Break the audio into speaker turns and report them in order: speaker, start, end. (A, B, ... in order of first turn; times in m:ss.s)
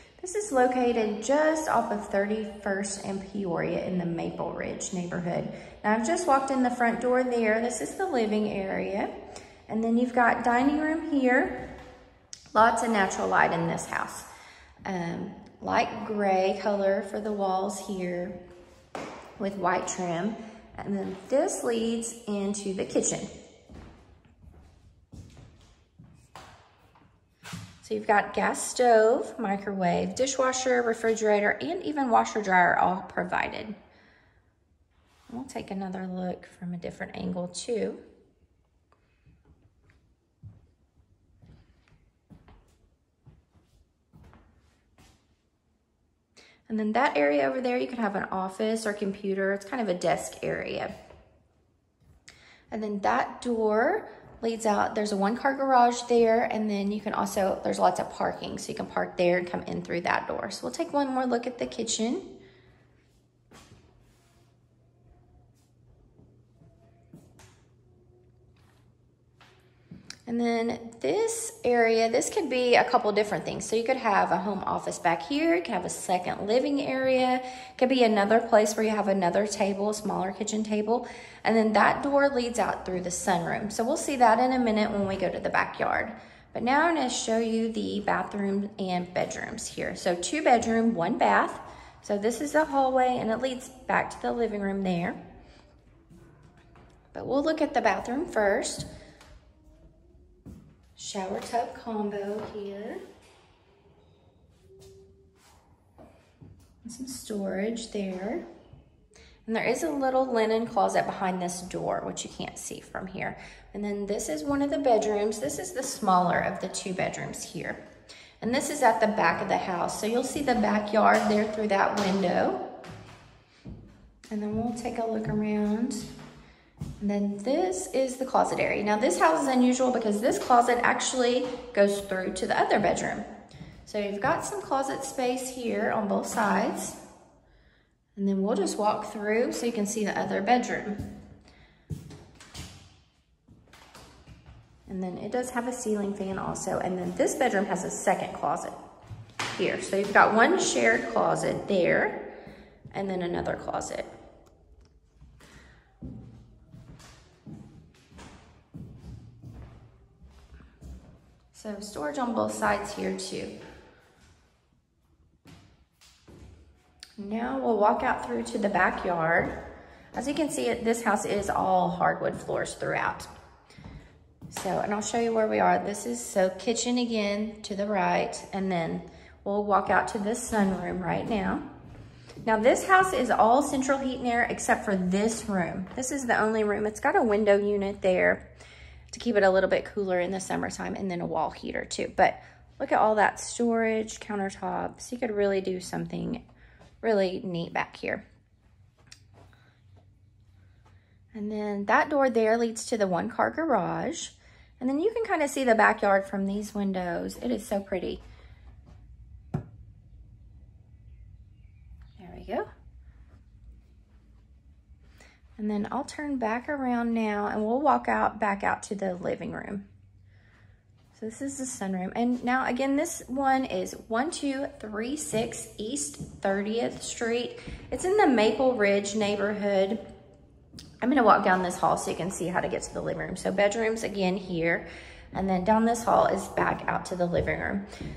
0:00.2-0:09.1 A
0:09.7-0:11.7 A
0:12.5-0:14.3 A
0:14.8-0:18.4 A
0:19.4-0:23.3 A
0:27.8-0:33.8 A
0:35.3-0:38.0 A
0:46.7-0:50.9 A
0:52.7-1:02.3 A
1:10.3-1:35.2 A
1:37.1-1:38.9 A
1:41.0-1:43.0 A
1:46.8-1:48.4 A
1:49.4-1:57.8 A
1:58.4-2:02.6 A
2:04.3-2:06.1 A
2:07.0-2:13.2 A
2:13.8-2:17.0 A
2:18.1-2:21.0 A
2:24.9-2:28.8 A
2:29.5-2:32.2 A
2:32.9-2:34.1 A
2:41.5-2:43.6 A
2:47.2-2:49.5 A
2:50.1-2:53.3 A
2:54.5-3:01.6 A
3:02.4-3:08.4 A
3:09.1-3:16.4 A
3:17.0-3:18.2 A
3:21.3-3:28.2 A
3:32.2-3:32.7 A
3:35.6-3:39.8 A
3:41.1-3:50.0 A
3:51.0-3:57.9 A